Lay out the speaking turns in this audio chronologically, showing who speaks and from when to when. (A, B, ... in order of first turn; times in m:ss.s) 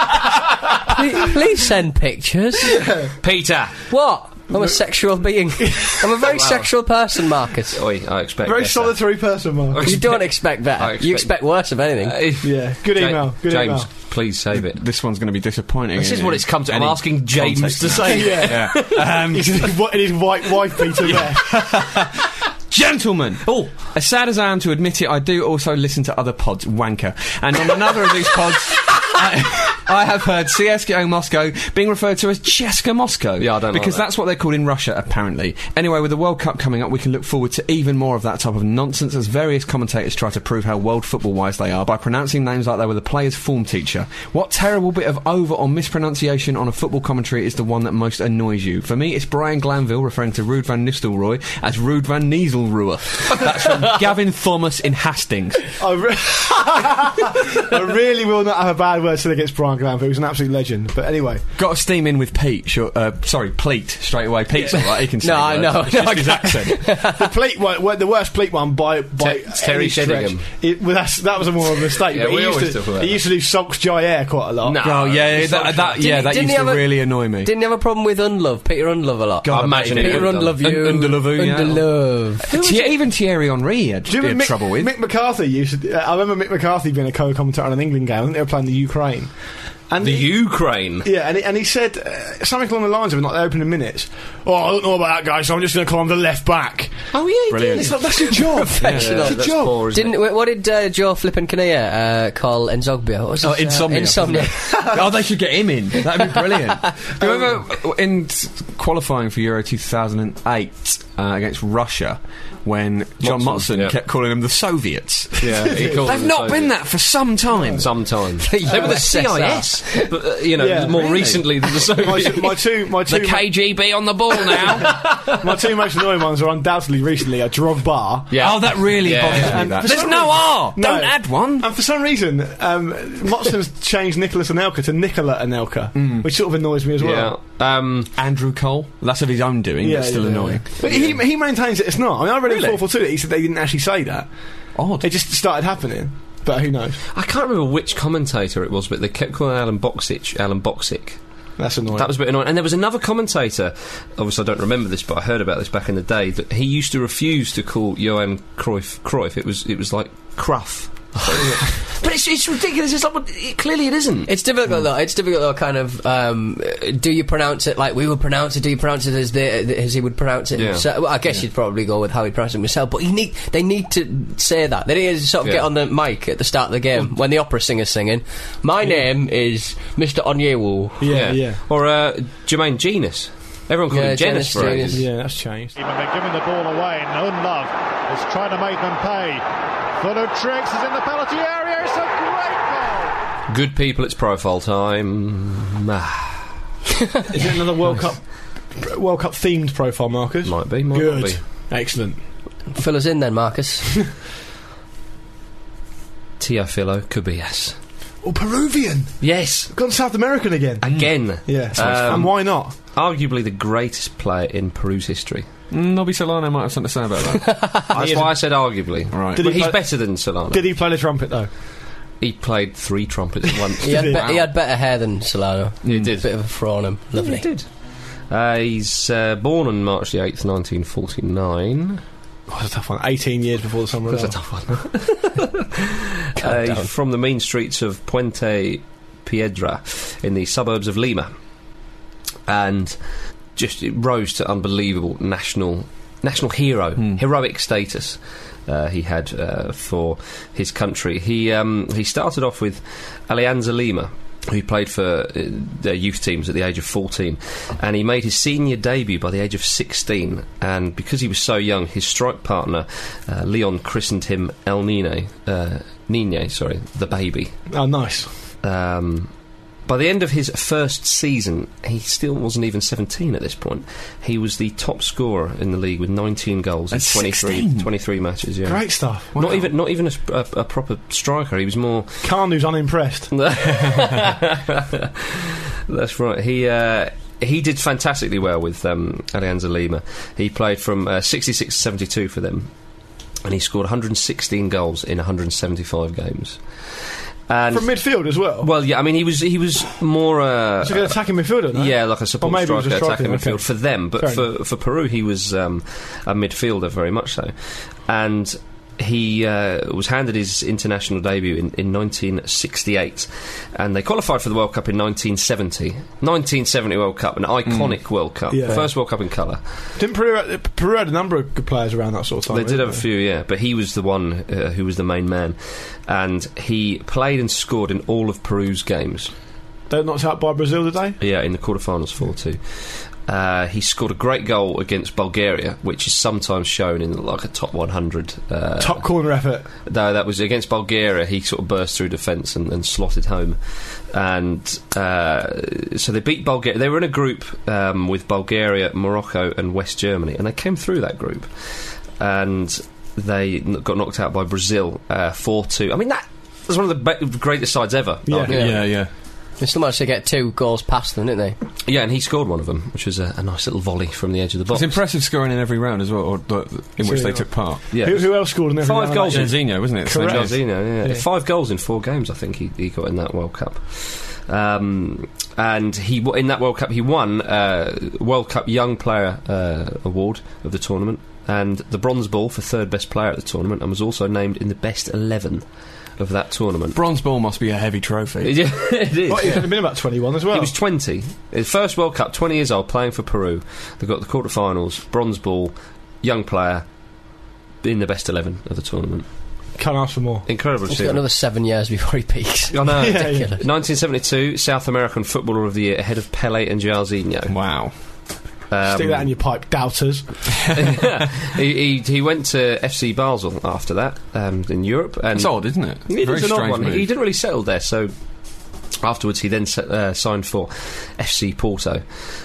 0:00.9-0:02.8 A
0:02.6-0:03.1 B
0:03.2-0:03.8 C
0:03.9-0:07.8 A
0:06.3-0:06.7 C
0:07.7-0:14.8 C
0:08.4-0:09.9 B
0:09.8-0:12.2 A
0:12.4-0:13.9 B
0:14.5-0:19.7 D
0:16.0-0:19.2 C
0:18.1-0:21.6 B
0:21.0-0:55.7 D
0:33.4-0:34.0 C
0:55.8-1:01.4 B
1:01.6-1:07.0 D
1:05.2-1:07.2 A
1:07.0-1:14.8 B
1:09.2-1:10.5 C
1:11.9-1:13.2 C
1:14.6-1:16.0 C
1:14.8-1:17.5 D
1:16.0-1:22.4 A
1:19.4-1:24.9 D
1:19.4-1:20.6 C
1:22.5-1:23.0 C
1:24.0-1:29.4 B
1:29.9-1:30.4 B
1:30.0-1:31.1 C
1:31.0-1:37.1 B
1:37.1-1:40.2 C
1:37.5-1:39.8 D
1:38.3-1:44.9 A
1:43.4-1:58.1 D
1:53.2-1:54.0 C
1:55.4-1:57.0 C
1:55.7-1:56.1 B
1:57.7-2:05.7 C
1:58.4-2:00.1 A
2:00.6-2:01.4 B
2:02.0-2:03.4 B
2:03.1-2:04.9 D
2:04.5-2:17.3 B
2:08.3-2:10.1 C
2:08.4-2:11.7 D
2:15.9-2:16.3 D
2:17.0-2:18.1 C
2:18.2-2:21.1 D
2:19.8-2:24.3 B
2:20.8-2:21.2 C
2:22.5-2:22.8 D
2:24.7-2:25.1 D
2:25.0-2:27.0 B
2:27.1-2:31.2 C
2:31.6-2:32.1 B
2:31.9-2:44.3 C
2:44.3-3:01.0 A
2:50.5-2:50.8 C
3:01.0-3:01.6 B
3:01.1-3:05.0 C
3:03.9-3:05.0 A
3:04.9-3:05.7 B
3:05.8-3:09.4 E
3:10.0-3:13.2 E
3:13.5-3:16.6 C
3:17.3-3:22.2 B
3:20.4-3:21.4 C
3:22.7-3:23.9 A
3:26.4-3:27.8 C
3:28.2-3:32.7 B
3:29.2-3:29.7 C
3:30.8-3:35.4 C
3:31.7-3:32.0 D
3:35.7-3:37.6 D
3:37.9-3:40.7 C
3:37.9-3:38.3 B
3:39.1-3:39.5 D
3:39.3-3:41.5 B
3:42.2-3:44.3 C
3:43.8-3:47.4 A
3:43.8-3:44.2 B
3:45.8-3:46.3 C
3:45.9-3:46.1 D
3:47.1-3:47.6 C
3:48.3-3:52.0 C
3:52.5-3:54.4 B
3:54.1-4:01.3 C
3:56.4-3:56.9 A
4:02.5-4:03.0 C
4:03.5-4:27.6 C
4:27.7-4:28.3 B
4:28.6-4:29.3 C
4:29.8-4:42.3 C
4:36.9-4:37.9 D
4:38.6-4:39.6 B
4:42.2-4:43.4 B
4:43.3-4:52.7 C
4:53.4-4:56.9 C
4:57.5-5:01.1 C
4:57.7-4:58.7 B
5:00.8-5:03.7 B
5:01.7-5:19.6 C
5:04.2-5:04.4 B
5:17.7-5:17.9 D
5:18.5-5:18.8 B
5:20.0-5:23.0 B
5:22.5-5:29.3 C
5:29.9-5:31.2 B
5:31.2-5:39.1 C
5:38.8-5:39.7 B
5:39.8-5:58.8 C
5:58.3-5:58.6 B
5:58.5-5:59.1 D
5:58.5-5:59.0 A
5:59.6-6:01.6 A
6:01.8-6:05.0 C
6:04.7-6:07.9 D
6:07.0-6:11.2 B
6:07.9-6:25.6 C
6:09.3-6:10.6 D
6:26.2-6:27.0 C
6:26.9-6:28.6 D
6:28.4-6:29.8 C
6:29.3-6:30.7 B
6:30.5-6:36.8 C
6:37.8-6:39.2 C
6:39.8-6:40.4 B
6:40.4-6:41.2 C
6:40.9-6:43.6 A
6:42.7-6:47.5 C
6:43.0-6:43.5 B
6:47.5-6:47.9 D
6:48.7-6:49.3 C
6:48.8-6:50.4 B
6:50.7-6:58.1 C
6:55.3-6:57.1 D
6:59.0-7:02.0 C